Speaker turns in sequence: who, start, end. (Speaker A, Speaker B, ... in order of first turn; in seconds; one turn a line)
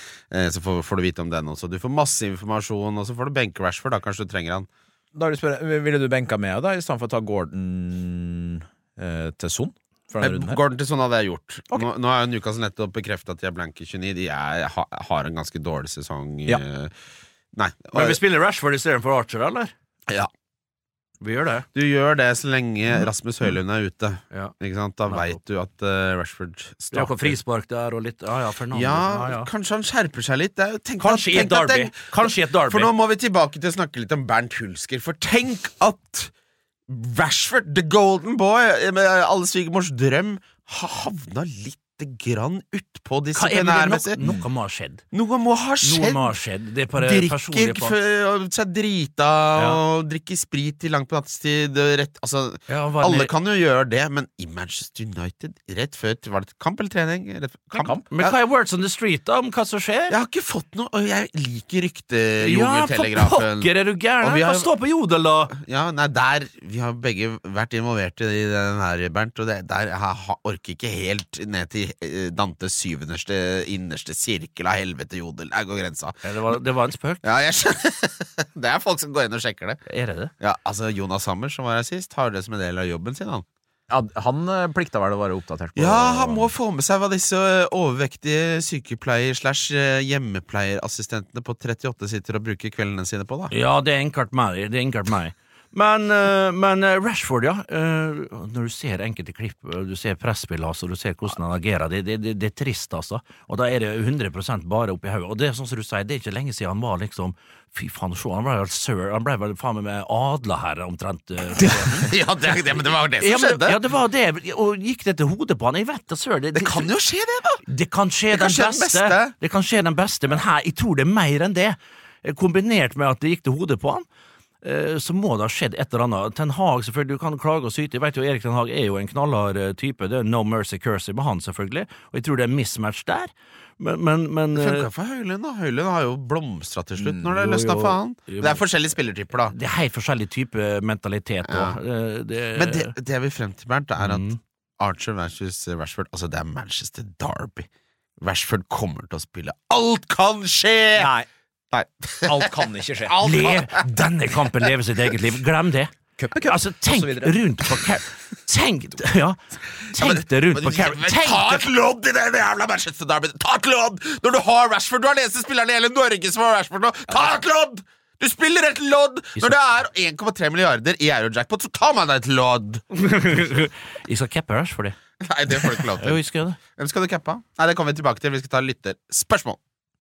Speaker A: 0.3-4.7
Speaker B: 5.1-10.6
Speaker A: 10.2-16.9
Speaker A: 17.5-18.2
Speaker C: 17.9-19.7
Speaker C: 21.2-21.7
Speaker A: 21.7-27.4
Speaker C: 25.1-25.4
Speaker C: 26.9-29.5
Speaker A: 28.7-36.3
Speaker C: 31.0-32.9
Speaker A: 36.9-44.2
Speaker C: 43.3-45.0
Speaker A: 45.1-46.3
Speaker C: 45.8-47.9
Speaker A: 47.0-58.3
Speaker C: 52.7-53.3
Speaker B: 57.7-58.0
Speaker C: 58.1-60.2
Speaker A: 60.1-64.7
Speaker C: 62.4-65.5
Speaker A: 65.5-76.2
Speaker C: 76.2-77.2
Speaker A: 77.2-79.8
Speaker C: 79.8-80.3
Speaker A: 80.4-83.4
Speaker B: 83.9-86.5
Speaker A: 85.8-93.5
Speaker C: 93.5-112.1
Speaker A: 112.0-113.8
Speaker C: 113.2-116.9
Speaker A: 116.5-117.6
Speaker C: 117.7-124.0
Speaker A: 118.3-119.3
Speaker C: 124.6-134.9
Speaker A: 134.5-139.5
Speaker C: 137.3-138.6
Speaker C: 139.4-142.9
Speaker A: 141.4-141.8
Speaker A: 142.5-144.3
Speaker C: 144.0-144.4
Speaker A: 144.8-147.7
Speaker A: 148.2-151.1
Speaker B: 150.9-151.3
Speaker A: 151.7-152.5
Speaker B: 152.2-153.2
Speaker A: 153.1-154.1
Speaker C: 153.2-155.9
Speaker B: 156.2-157.4
Speaker C: 156.4-161.6
Speaker A: 159.9-172.8
Speaker C: 172.9-174.9
Speaker A: 175.2-176.2
Speaker C: 175.6-176.6
Speaker A: 176.8-179.6